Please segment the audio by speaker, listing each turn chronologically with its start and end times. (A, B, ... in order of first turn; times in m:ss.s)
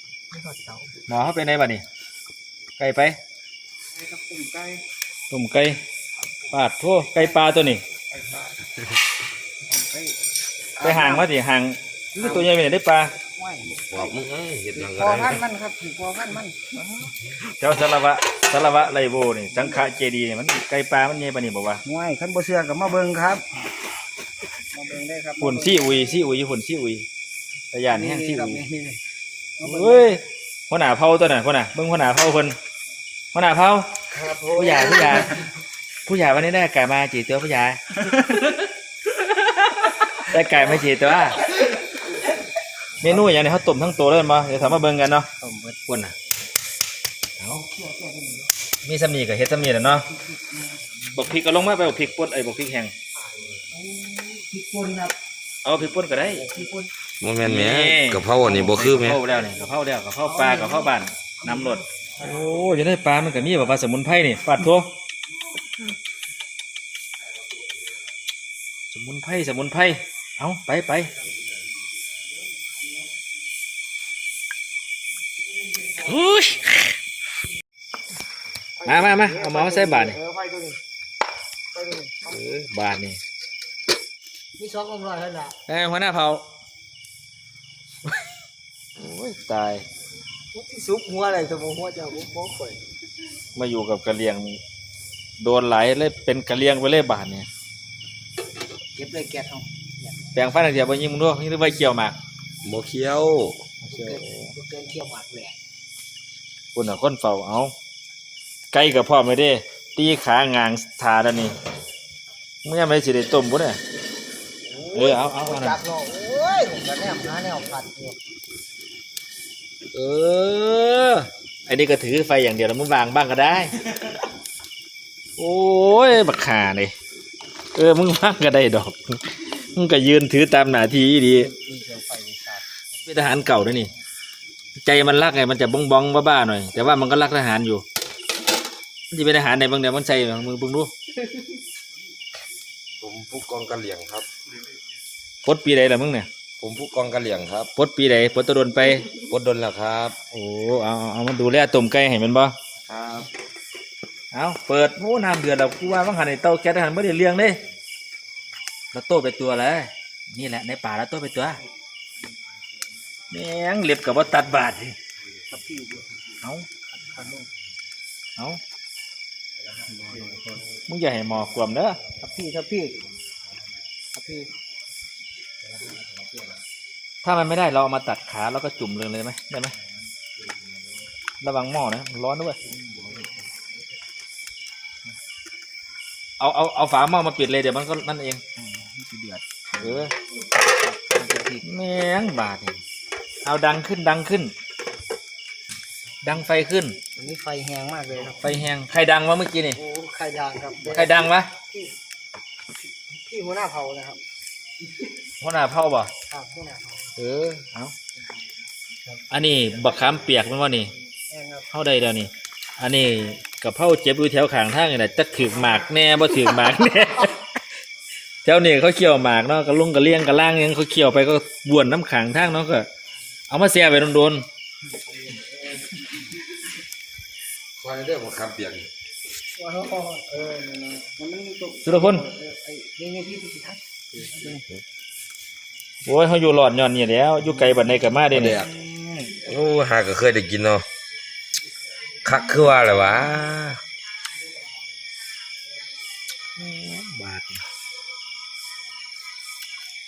0:00.3-0:01.0 A
0:01.1-0:01.8 B
0:02.8-0:03.2 B
0:03.9-0:04.8 A
0:05.3-0:05.8 B
0:06.5-0:07.8 B
0:09.7-0:10.2 A
0:10.8-0:11.3 A
0:10.8-0:13.1 B
0:12.1-0:12.5 A
0:13.2-0:14.2 A
0:13.7-0:15.4 C
0:14.7-0:17.1 A
0:17.6-0:21.8 B
0:21.8-0:23.4 A
0:24.7-0:26.2 A
0:25.4-0:27.1 B
0:27.7-0:28.6 B
0:27.9-0:29.0 A
0:29.6-0:30.2 A
0:29.6-0:32.6 B
0:33.3-0:33.9 B
0:34.1-0:35.4 A
0:34.6-0:35.4 B
0:36.1-0:38.6 B
0:39.2-0:41.5 B
0:43.0-0:45.3 B
0:45.4-0:45.8 A
0:45.9-0:46.1 B
0:47.4-0:48.5 A
0:48.8-0:50.1 B
0:50.1-0:50.8 A
0:51.2-0:52.9 B
0:53.2-0:55.2 A
0:55.6-0:56.4 B
0:56.2-0:56.9 A
0:57.2-0:59.2 C
0:57.4-1:04.9 B
1:00.2-1:01.8 A
1:08.9-1:11.1 B
1:16.0-1:17.0 B
1:18.8-1:20.8 A
1:18.8-1:20.2 B
1:21.7-1:22.4 A
1:22.3-1:23.2 B
1:24.6-1:25.6 A
1:25.7-1:26.4 B
1:29.0-1:29.8 B
1:30.5-1:32.8 A
1:33.6-1:34.6 B
1:35.4-1:37.5 B
1:39.0-1:40.4 A
1:40.4-1:42.2 B
1:42.6-1:43.6 C
1:43.8-1:45.6 A
1:43.8-1:44.6 B
1:46.8-1:47.7 B
1:48.7-1:51.6 B
1:52.6-1:53.8 B
1:54.7-1:58.2 A
1:54.9-1:55.8 B
1:59.9-2:03.7 B
2:05.4-2:06.9 B
2:07.8-2:11.5 B
2:11.2-2:12.7 A
2:13.1-2:13.9 B
2:14.8-2:17.8 B
2:19.1-2:20.9 B
2:23.0-2:24.3 C
2:25.4-2:26.3 B
2:26.6-2:27.7 C
2:27.8-2:29.1 B
2:29.2-2:30.2 C
2:30.3-2:32.6 B
2:32.9-2:33.3 C
2:34.3-2:37.6 B
2:38.9-2:41.6 B
2:43.3-2:45.0 B
2:45.5-2:46.2 A
2:46.9-2:47.5 A
2:49.9-2:50.6 A
2:50.9-2:52.0 B
2:52.1-2:53.0 A
2:54.1-2:54.5 A
2:55.7-2:56.6 A
2:57.2-2:59.7 B
3:01.4-3:02.6 B
3:02.7-3:03.3 A
3:06.4-3:08.4 B
3:08.6-3:11.7 A
3:09.8-3:10.1 B
3:11.6-3:12.8 B
3:13.4-3:14.5 B
3:16.2-3:17.0 B
3:17.2-3:18.4 A
3:18.4-3:19.8 B
3:19.7-3:22.0 A
3:20.9-3:21.5 B
3:22.8-3:24.2 A
3:25.4-3:26.1 B
3:26.3-3:27.6 A
3:27.2-3:27.9 B
3:29.3-3:30.9 B
3:30.9-3:31.7 A
3:31.7-3:37.4 B
3:38.4-3:42.9 B
3:43.5-3:44.5 B
3:45.0-3:46.1 A
3:47.8-3:48.9 C
3:49.6-3:54.7 A
3:51.8-3:52.2 B
3:56.0-3:58.6 B
3:57.7-3:58.0 A
3:58.3-3:58.7 C
3:58.5-3:59.3 A
3:59.4-4:00.8 C
4:02.2-4:03.8 C
4:06.6-4:07.6 B